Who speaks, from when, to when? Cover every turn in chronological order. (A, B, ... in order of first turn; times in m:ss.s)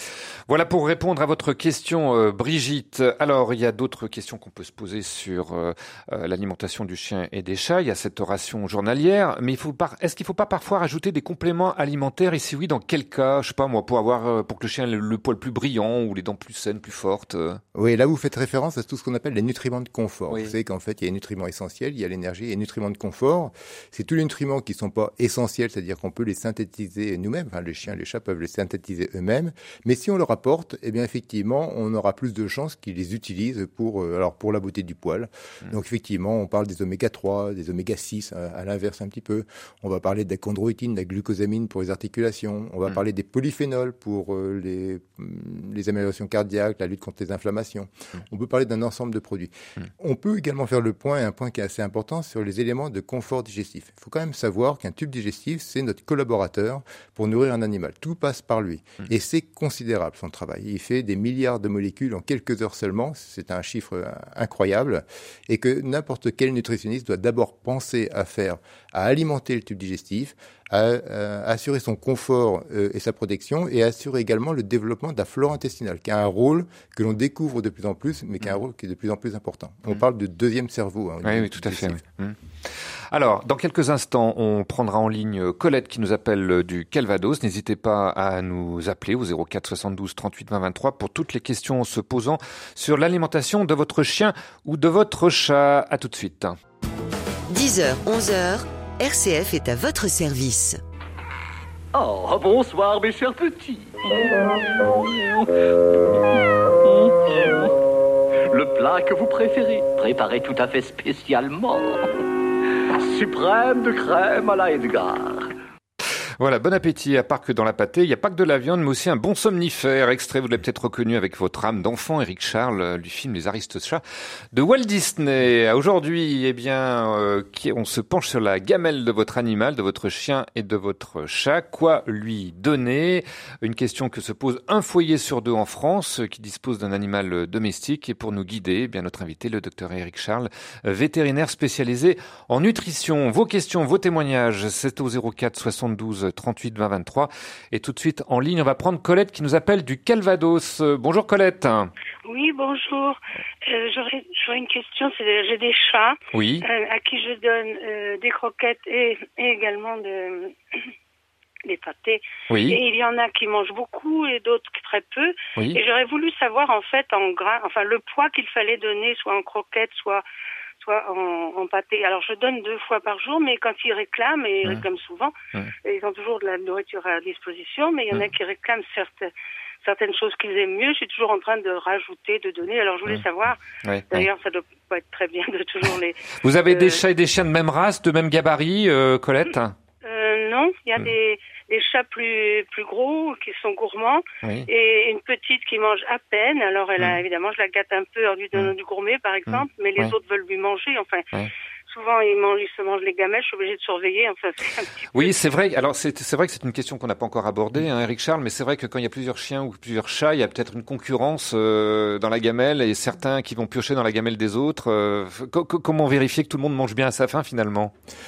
0:00.5-0:17.6 A
0:17.7-1:22.0 B
0:20.3-0:20.5 A
1:21.2-1:22.4 A
1:23.1-1:36.6 A
1:37.5-1:40.8 C
1:41.9-1:46.3 D
1:46.8-1:47.7 D
1:48.5-1:52.1 D
1:53.0-1:55.5 D
1:56.4-2:04.0 A
2:04.5-2:31.9 A
2:32.3-2:40.6 E
2:36.3-2:36.6 A
2:41.6-2:50.2 E
2:42.5-2:42.8 A
2:50.8-2:55.3 E
2:55.8-2:59.3 E
2:59.8-3:07.0 E
3:03.8-3:04.3 A
3:05.8-3:09.8 A
3:10.0-3:21.2 E
3:19.5-3:20.1 A
3:21.9-3:25.4 E
3:25.1-3:37.9 A